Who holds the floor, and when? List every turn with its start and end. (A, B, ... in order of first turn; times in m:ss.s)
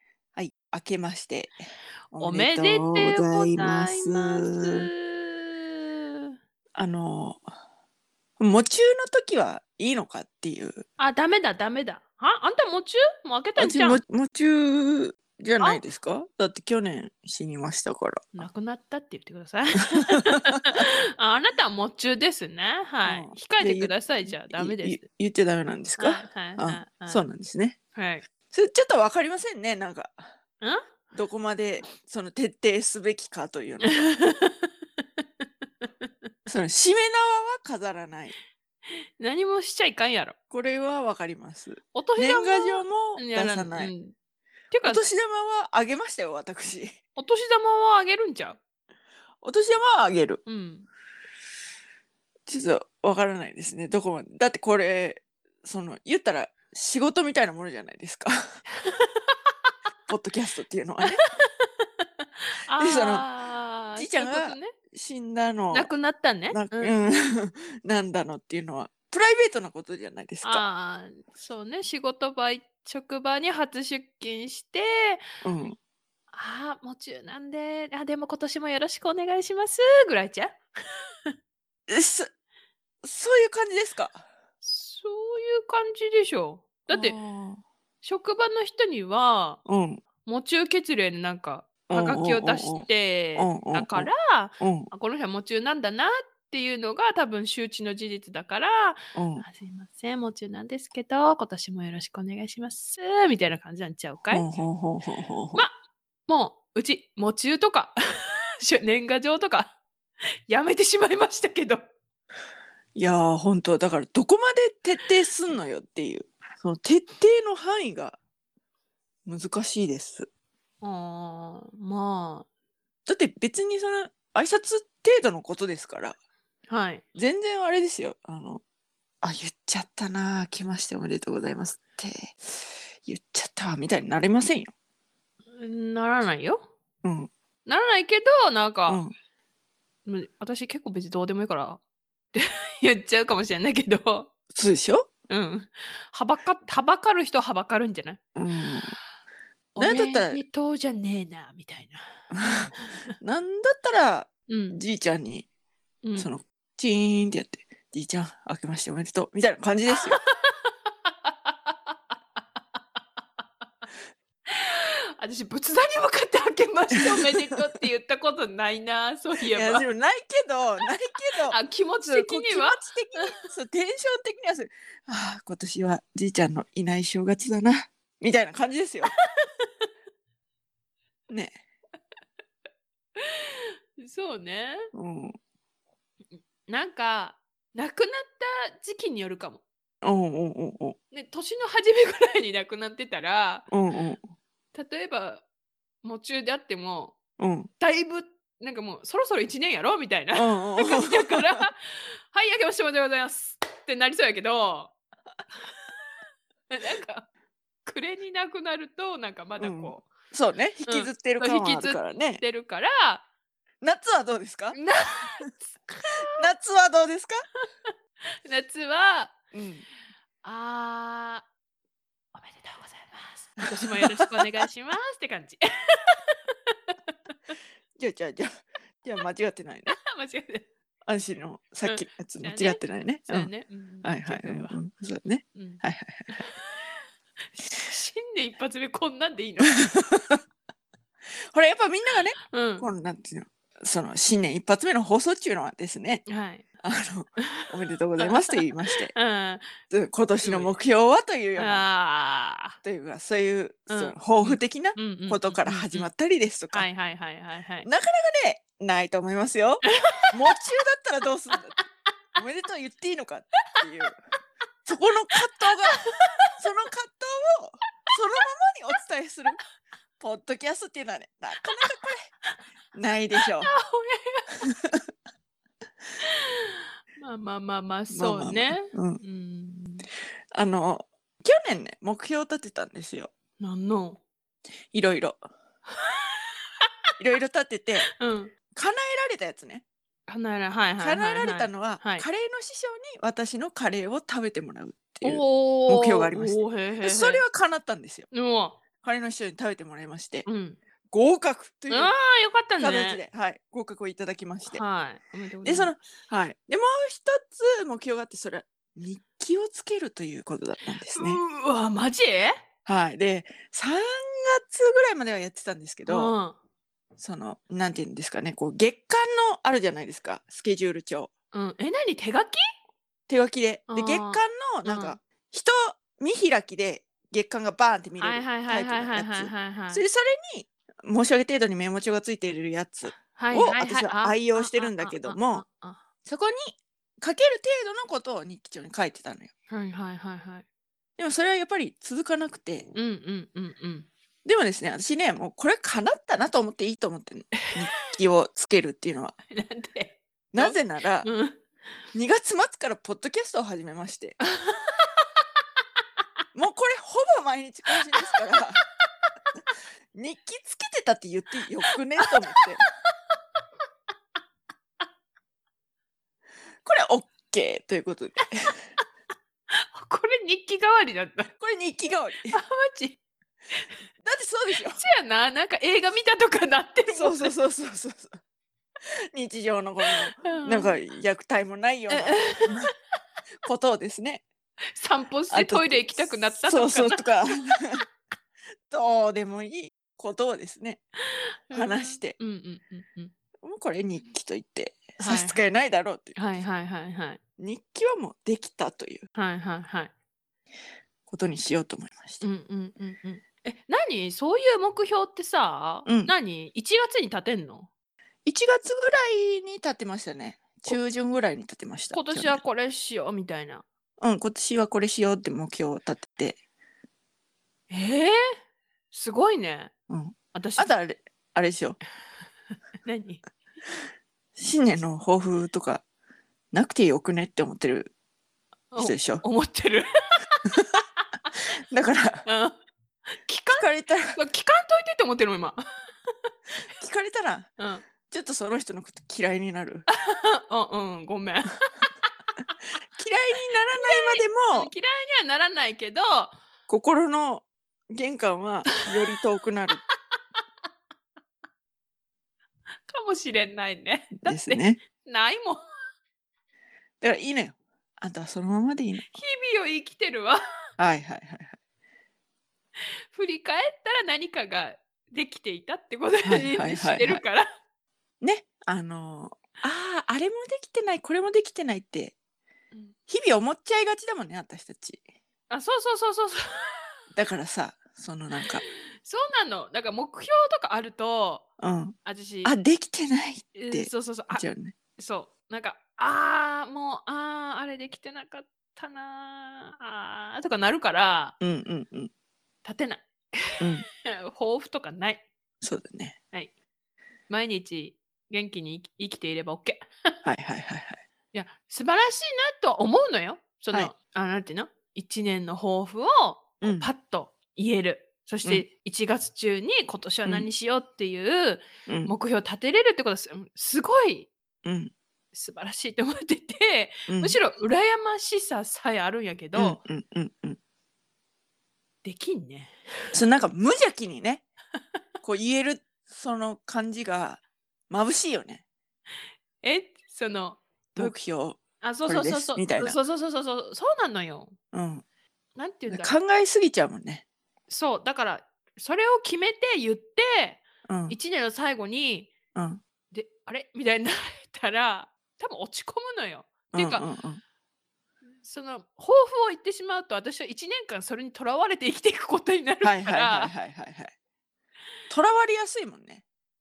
0:00.3-0:01.6 A
0:02.1-0:04.9 A
0:02.1-0:06.3 B
0:06.7-0:07.4 A
0:08.4-0:10.8 A
0:11.0-0:14.0 B
0:13.6-0:18.2 A
0:18.3-0:25.0 B
0:20.0-0:20.3 A
0:23.0-0:27.8 A
0:26.0-0:27.2 B
0:27.9-0:28.2 B
0:28.5-0:30.3 A
0:31.1-0:34.1 A
0:33.8-0:35.9 B
0:36.5-0:38.4 A
0:39.2-0:40.3 B
0:40.5-0:43.9 A
0:41.9-0:44.1 B
0:44.7-0:45.0 B
0:44.8-0:46.9 A
0:47.2-0:48.6 B
0:49.4-0:50.4 A
0:50.4-0:50.9 B
0:52.5-0:58.6 A
0:58.8-0:59.5 B
1:00.1-1:01.2 A
1:01.2-1:04.7 B
1:02.8-1:03.3 A
1:04.0-1:05.9 A
1:05.7-1:07.1 B
1:06.5-1:10.6 A
1:10.4-1:15.2 B
1:15.4-1:15.8 A
1:16.3-1:20.6 B
1:21.9-1:22.3 A
1:23.0-1:24.2 A
1:24.6-1:27.2 B
1:26.9-1:27.6 A
1:28.0-1:29.6 B
1:29.6-1:30.0 A
1:30.2-1:44.5 B
1:31.9-1:34.9 A
1:39.1-1:39.4 A
1:44.3-1:45.6 A
1:46.3-1:49.8 B
1:50.5-1:51.8 B
1:52.9-1:58.2 A
1:59.2-2:00.3 A
2:00.8-2:02.5 B
2:03.1-2:06.2 A
2:06.7-2:07.0 B
2:07.1-2:08.6 A
2:09.2-2:14.7 A
2:15.6-2:16.7 B
2:17.0-2:17.3 A
2:17.6-2:19.0 B
2:18.9-2:19.1 A
2:20.0-2:21.8 B
2:22.3-2:24.3 B
2:24.5-2:25.1 A
2:25.3-2:28.2 B
2:28.3-2:29.0 A
2:29.7-2:33.1 B
2:29.8-2:30.4 A
2:32.3-2:35.5 A
2:34.5-2:34.8 B
2:36.0-2:36.3 B
2:36.2-2:40.2 A
2:40.1-2:41.9 B
2:44.5-2:49.8 B
2:47.0-2:47.5 A
2:49.4-2:59.1 A
2:51.5-2:53.4 B
2:59.4-2:59.7 B
3:01.3-3:01.6 A
3:03.2-3:04.9 B
3:04.9-3:05.3 A
3:06.7-3:09.6 B
3:10.0-3:11.0 A
3:11.1-3:13.7 B
3:13.7-3:14.2 A
3:14.7-3:15.4 B
3:16.0-3:17.2 B
3:17.4-3:17.7 A
3:17.8-3:24.9 B
3:20.4-3:21.6 A
3:26.7-3:27.3 B
3:27.8-3:30.1 B
3:29.6-3:32.4 A
3:30.9-3:33.2 B
3:33.8-3:34.8 A
3:34.7-3:36.3 B
3:36.1-3:37.4 A
3:38.4-3:39.4 B
3:39.5-3:39.8 A
3:40.4-3:41.5 B
3:42.3-3:47.5 B
3:43.6-3:44.5 A
3:48.0-3:50.0 A
3:49.9-3:50.7 B
3:51.0-3:53.5 A
3:51.8-3:54.9 B
3:54.0-3:56.4 A
3:55.5-3:57.0 B
3:57.8-3:59.9 B
4:00.1-4:00.4 A
4:01.5-4:06.2 A
4:02.4-4:02.9 B
4:06.3-4:06.6 B
4:06.8-4:09.1 A
4:07.4-4:09.7 B
4:09.9-4:11.8 A
4:10.4-4:10.7 B
4:11.6-4:12.8 B
4:12.8-4:16.9 A
4:13.9-4:16.1 B
4:16.7-4:17.9 B
4:17.8-4:21.8 A
4:19.8-4:20.4 B
4:22.4-4:24.2 A
4:24.8-4:26.0 A
4:26.0-4:26.5 B
4:26.6-4:29.6 A
4:30.2-4:32.2 A
4:32.9-4:33.7 A
4:33.4-4:34.6 B
4:36.2-4:40.1 B
4:38.1-4:39.2 A
4:40.5-4:43.3 A
4:43.6-4:44.2 B
4:44.9-4:45.4 A
4:45.9-4:46.9 B
4:47.2-4:48.1 A
4:48.1-4:48.5 B
4:48.7-4:49.8 A
4:50.3-4:52.2 B
4:51.0-4:58.3 A
4:55.2-4:57.4 B
4:58.3-4:58.8 B
4:59.0-5:00.5 A
5:00.4-5:00.8 B
5:01.1-5:02.1 A
5:01.9-5:03.2 B
5:02.8-5:04.8 A
5:04.7-5:05.9 B
5:05.6-5:11.4 A
5:11.1-5:12.5 B
5:12.8-5:16.3 A
5:16.0-5:16.6 B
5:17.2-5:21.3 A
5:21.5-5:22.6 B
5:23.3-5:35.6 A
5:23.9-5:25.2 B
5:28.2-5:30.0 B
5:33.1-5:36.0 B
5:36.2-5:39.5 A
5:39.7-5:40.6 B
5:41.2-5:42.9 A
5:42.9-5:44.1 B
5:44.4-5:49.3 A
5:47.6-5:48.2 B
5:49.5-5:51.7 B
5:50.5-5:51.3 A
5:52.1-5:54.4 A
5:54.4-5:55.4 B
5:56.5-5:58.8 A
6:00.1-6:02.8 A
6:02.2-6:02.9 B
6:06.8-6:08.9 A
6:09.7-6:11.5 B
6:11.6-6:12.6 A
6:12.5-6:13.2 B
6:14.2-6:15.0 A
6:14.7-6:17.5 B
6:17.1-6:18.4 A
6:19.3-6:22.9 A
6:20.0-6:21.0 B
6:22.1-6:22.9 B
6:23.6-6:24.4 A
6:24.9-6:27.7 B
6:25.5-6:28.0 A
6:28.9-6:31.0 A
6:31.3-6:33.3 B
6:31.7-6:32.4 A
6:33.6-6:36.4 A
6:35.2-6:35.6 B
6:36.4-6:37.4 B
6:37.6-6:39.2 A
6:39.4-6:40.1 B
6:41.3-6:42.4 A
6:42.4-6:47.9 B
6:46.0-6:46.3 A
6:48.4-6:52.6 A
6:52.1-6:53.8 B
6:54.2-6:56.6 A
6:57.9-6:58.5 B
6:59.1-6:59.9 B
7:00.1-7:02.0 A
7:00.5-7:00.9 B
7:03.0-7:03.4 B
7:04.6-7:06.0 A
7:06.7-7:08.1 A
7:08.9-7:10.1 B
7:09.0-7:09.4 A
7:11.9-7:12.4 A
7:12.4-7:12.8 B
7:13.3-7:16.3 B
7:13.8-7:14.4 A
7:17.0-7:17.7 A
7:17.8-7:18.1 B
7:18.2-7:20.1 A
7:20.1-7:22.3 B
7:23.2-7:24.9 A
7:24.0-7:26.5 B
7:26.9-7:30.0 A
7:33.1-7:35.8 B
7:34.4-7:35.0 A
7:37.2-7:39.3 A
7:39.3-7:40.6 B
7:41.0-7:41.8 A
7:43.3-7:47.7 B
7:46.4-7:47.4 A
7:48.4-7:52.4 A
7:53.3-7:55.2 A
7:55.7-7:57.2 B
7:57.3-7:58.8 A
7:58.8-8:01.7 B
8:01.8-8:04.9 A
8:02.2-8:02.7 B
8:03.8-8:04.6 B
8:05.2-8:11.6 B
8:11.6-8:12.3 A
8:12.8-8:15.4 B
8:13.8-8:14.0 A
8:15.8-8:16.4 A
8:17.5-8:20.3 B
8:20.4-8:21.2 A
8:21.5-8:34.5 B
8:26.8-8:27.1 A
8:32.1-8:32.3 A
8:34.8-8:35.1 A
8:35.5-8:40.0 B
8:37.3-8:37.6 A
8:39.7-8:40.8 A
8:42.2-8:43.4 B
8:43.3-8:44.6 A
8:45.4-8:48.8 A
8:49.8-8:51.3 B
8:51.1-8:53.2 A
8:52.0-8:54.8 B
8:54.9-8:55.2 A
8:55.8-8:56.3 B
8:56.1-8:57.4 A
8:57.9-9:02.5 B
9:01.0-9:01.4 A
9:02.7-9:03.0 A
9:03.3-9:07.2 B
9:06.9-9:07.6 A
9:08.6-9:13.7 B
9:13.0-9:14.3 A
9:15.3-9:16.4 A